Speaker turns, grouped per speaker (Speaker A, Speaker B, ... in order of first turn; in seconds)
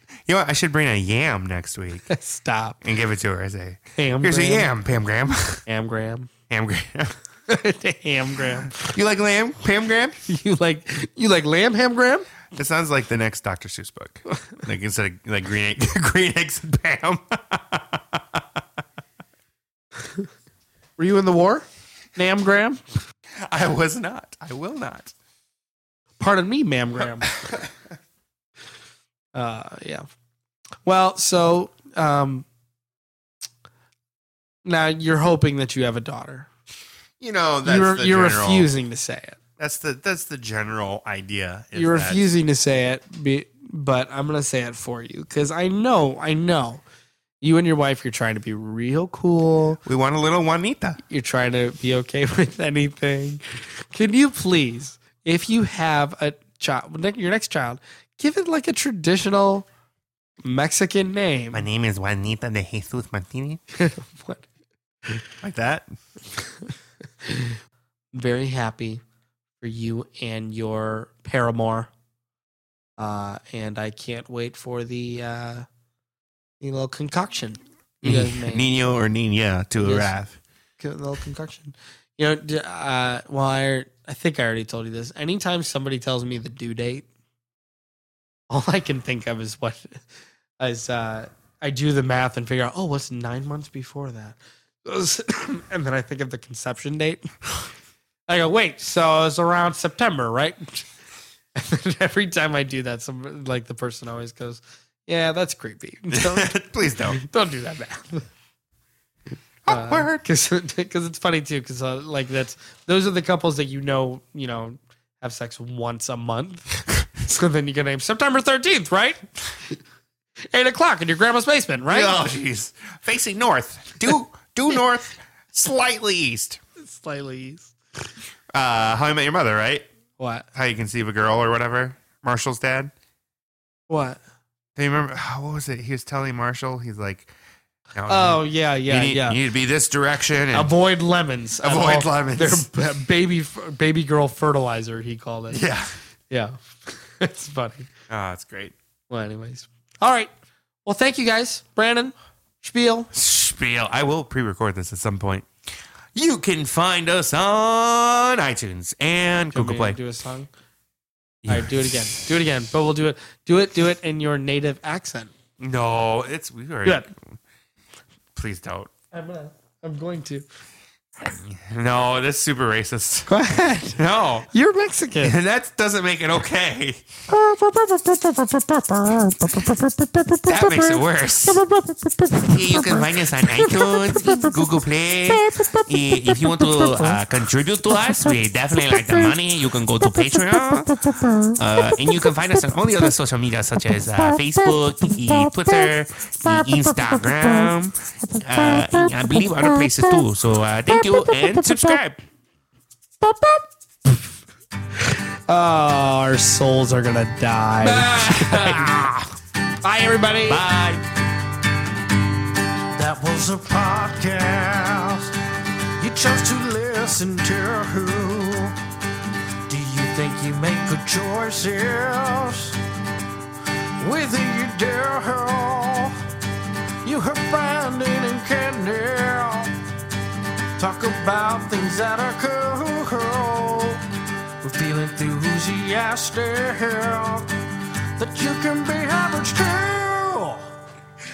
Speaker A: 0.3-2.1, 2.8-5.6, 6.5-7.2, 8.7-10.2, 12.5-18.6, 23.4-25.1, 27.2-27.7, 37.2-38.7, 39.6-42.2, 49.8-51.0, 61.5-63.6, 65.3-65.9, 78.0-80.4, 106.1-107.2, 109.6-110.2, 121.9-126.6, 128.5-129.8, 130.5-132.9, 134.8-137.3, 137.9-140.7, 141.6-142.7, 145.5-145.9, 148.1-148.7, 153.1-155.5, 156.1-160.0, 161.4-161.9, 165.6-167.1, 168.3-168.9, 171.4-173.3, 174.0-174.5, 175.2-177.0, 180.4-181.7, 182.4-202.2, 208.0-209.2, 210.5-211.0
Speaker B: 2.1-2.8, 4.0-4.7, 5.7-6.3, 7.5-8.9, 10.2-12.3, 21.0-22.9, 26.2-27.4, 29.3-30.1, 30.8-32.5, 34.6-36.5, 37.6-39.4, 41.7-46.8, 47.4-49.8, 51.1-59.7, 60.4-61.6, 63.7-64.5, 66.4-67.6, 68.1-69.0, 69.6-71.9, 73.0-75.7, 76.6-78.7, 79.8-80.1, 80.8-87.1, 88.5-90.0, 90.6-97.3, 98.3-100.9, 101.5-106.5, 107.1-108.3, 109.7-119.8, 120.5-122.2, 126.8-127.7, 130.2-130.4, 133.9-134.2, 138.1-139.4, 140.5-145.6, 146.3-147.9, 149.1-150.3, 150.8-153.1, 159.5-160.5, 161.5-165.3, 169.1-170.4, 173.3-175.3, 177.4-179.7, 203.3-203.6, 204.9-208.8, 209.8-210.6
Speaker C: 207.8-208.9, 212.9-215.3, 216.0-218.8, 219.7-222.8, 224.0-226.2, 227.0-229.8, 230.8-234.0, 234.6-237.5, 238.2-240.7